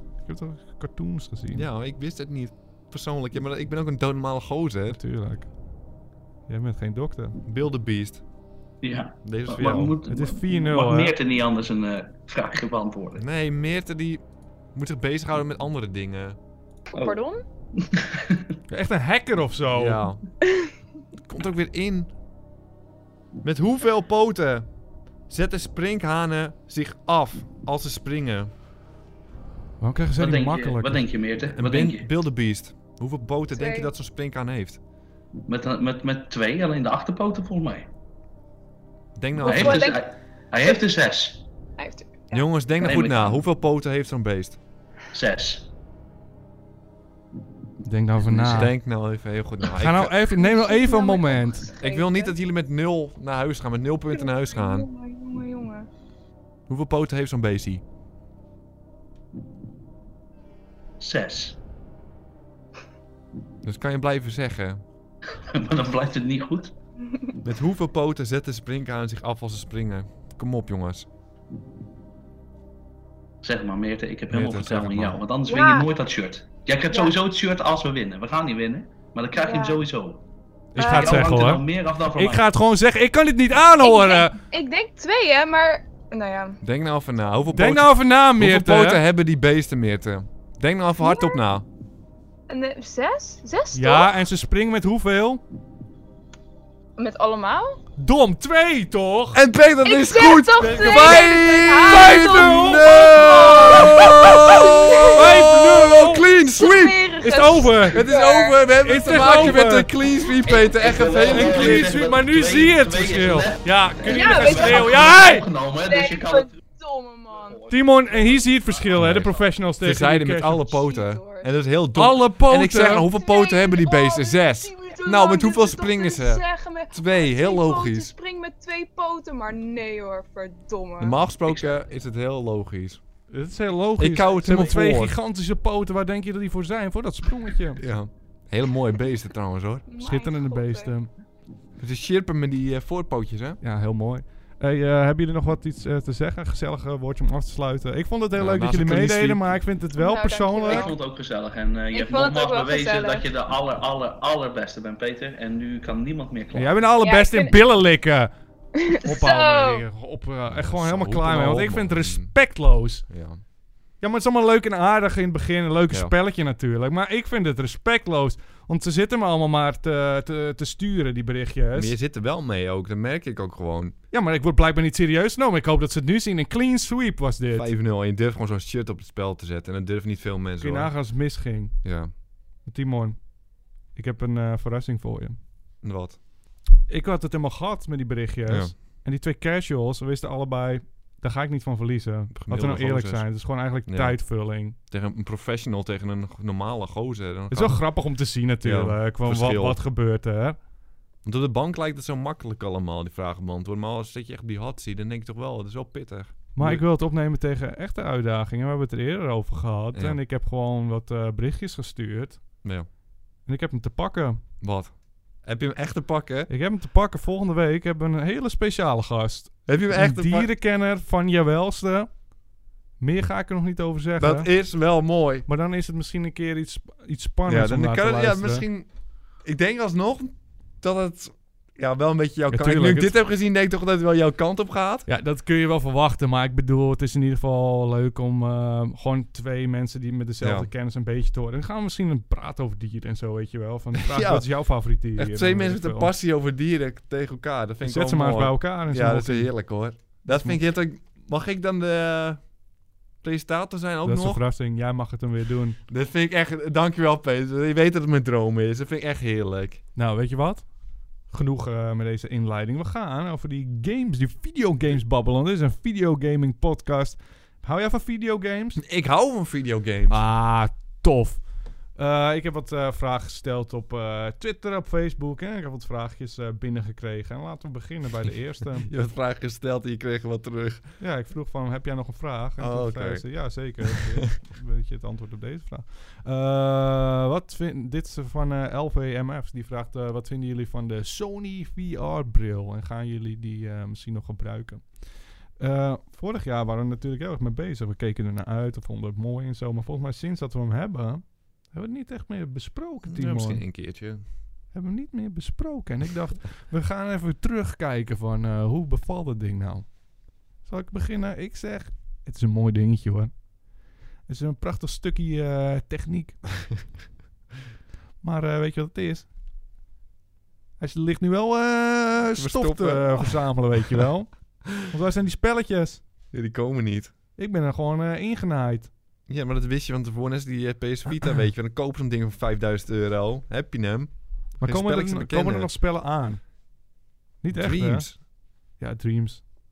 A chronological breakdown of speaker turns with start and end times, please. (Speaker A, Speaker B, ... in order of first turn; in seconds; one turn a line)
Speaker A: 0.2-1.7
Speaker B: 1.5-5.0
Speaker A: 4.9-5.6
Speaker A: 6.5-7.4
Speaker B: 7.4-8.2
Speaker C: 8.8-13.2
Speaker B: 9.2-10.0
Speaker A: 10.1-11.2
Speaker B: 13.2-16.4
Speaker C: 16.9-17.2
Speaker D: 16.9-17.4
Speaker C: 17.8-18.4
Speaker A: 18.7-20.0
Speaker B: 19.8-20.2
Speaker B: 21.2-22.1
Speaker B: 23.4-24.7
Speaker B: 25.3-28.5
Speaker A: 29.8-31.0
Speaker C: 30.2-32.1
Speaker B: 31.5-34.8
Speaker D: 33.5-33.9
Speaker C: 35.5-37.9
Speaker B: 39.1-39.9
Speaker D: 39.4-40.0
Speaker C: 39.4-41.4
Speaker D: 41.8-42.6
Speaker B: 42.3-44.6
Speaker C: 42.8-43.4
Speaker C: 45.1-45.7
Speaker A: 47.8-48.8
Speaker B: 48.3-50.1
Speaker A: 49.7-51.7
Speaker D: 50.4-52.4
Speaker B: 51.8-54.9
Speaker D: 54.1-55.9
Speaker B: 56.7-57.8
Speaker C: 61.0-61.6
Speaker B: 63.6-64.8
Speaker C: 65.4-66.7
Speaker B: 67.4-71.1
Speaker C: 73.4-80.2
Speaker B: 74.3-75.2
Speaker D: 75.5-75.9
Speaker D: 79.4-79.8
Speaker A: 80.7-84.4
Speaker D: 80.8-81.4
Speaker C: 80.8-82.5
Speaker D: 83.8-86.6
Speaker B: 86.6-91.7
Speaker A: 87.5-89.0
Speaker D: 91.0-91.4
Speaker D: 92.5-94.1
Speaker A: 93.8-95.4
Speaker D: 97.0-97.8
Speaker A: 98.0-99.4
Speaker B: 99.3-107.0
Speaker D: 99.8-105.3
Speaker A: 100.6-102.9
Speaker C: 103.2-104.1
Speaker A: 105.1-106.3
Speaker D: 106.5-108.6
Speaker A: 107.2-108.1
Speaker B: 107.9-112.0
Speaker A: 108.8-110.0
Speaker C: 110.4-116.6
Speaker A: 111.2-115.5
Speaker D: 114.1-115.0
Speaker D: 115.8-117.7
Speaker C: 117.5-119.3
Speaker A: 117.7-120.8
Speaker B: 118.9-128.1
Speaker D: 120.7-121.5
Speaker A: 122.0-123.1
Speaker D: 123.1-131.3
Speaker B: 131.0-133.0
Speaker A: 133.3-137.8
Speaker B: 134.0-135.2
Speaker B: 137.8-139.8
Speaker D: 139.9-140.9
Speaker A: 140.0-141.1
Speaker B: 141.8-143.6
Speaker A: 143.6-150.9
Speaker B: 148.3-149.6
Speaker D: 150.0-151.0
Speaker C: 150.7-156.8
Speaker D: 151.9-153.3
Speaker A: 156.5-158.3
Speaker D: 157.0-157.6
Speaker D: 158.8-159.8
Speaker A: 158.9-163.1
Speaker B: 160.5-162.3
Speaker B: 163.1-163.4
Speaker A: 164.0-172.0
Speaker B: 171.8-173.9
Speaker A: 174.1-177.7
Speaker B: 177.5-180.9
Speaker A: 180.6-181.8
Speaker B: 181.8-182.1
Speaker A: 182.6-183.3
Speaker A: 183.9-185.4
Speaker B: 185.8-186.2
Speaker A: 186.9-194.8
Speaker B: 188.5-188.7
Speaker B: 192.3-193.3
Speaker B: 193.8-194.2
Speaker B: 194.8-197.9
Speaker A: 197.5-200.6
Speaker B: 198.6-199.8
Speaker B: 201.2-206.8
Speaker A: 206.5-212.5
Speaker B: 209.9-210.2
Speaker A: 213.5-214.4
Speaker B: 214.6-216.5
Speaker A: 216.5-222.2
Speaker B: 219.7-220.5
Speaker A: 223.0-224.5
Speaker B: 224.2-225.5
Speaker A: 225.5-228.6
Speaker B: 227.5-235.1
Speaker A: 232.5-233.2
Speaker A: 235.1-246.1
Speaker B: 240.4-240.7
Speaker B: 243.9-252.5
Speaker A: 247.8-249.6
Speaker A: 250.2-250.6
Speaker B: 253.2-254.4
Speaker A: 254.0-255.8
Speaker B: 255.9-259.8
Speaker A: 260.0-260.7
Speaker A: 261.3-268.8
Speaker B: 268.8-270.2
Speaker A: 270.1-278.9
Speaker B: 278.8-280.9
Speaker A: 281.0-295.0
Speaker B: 282.6-284.1
Speaker A: 295.6-303.6
Speaker B: 303.0-304.2
Speaker A: 304.7-313.4
Speaker A: 314.2-316.5
Speaker A: 318.2-319.3
Speaker A: 320.8-326.1
Speaker B: 322.4-324.0
Speaker B: 326.3-327.1
Speaker A: 327.4-328.9
Speaker B: 329.3-335.7
Speaker A: 334.6-336.5
Speaker A: 337.4-339.6
Speaker B: 337.5-338.2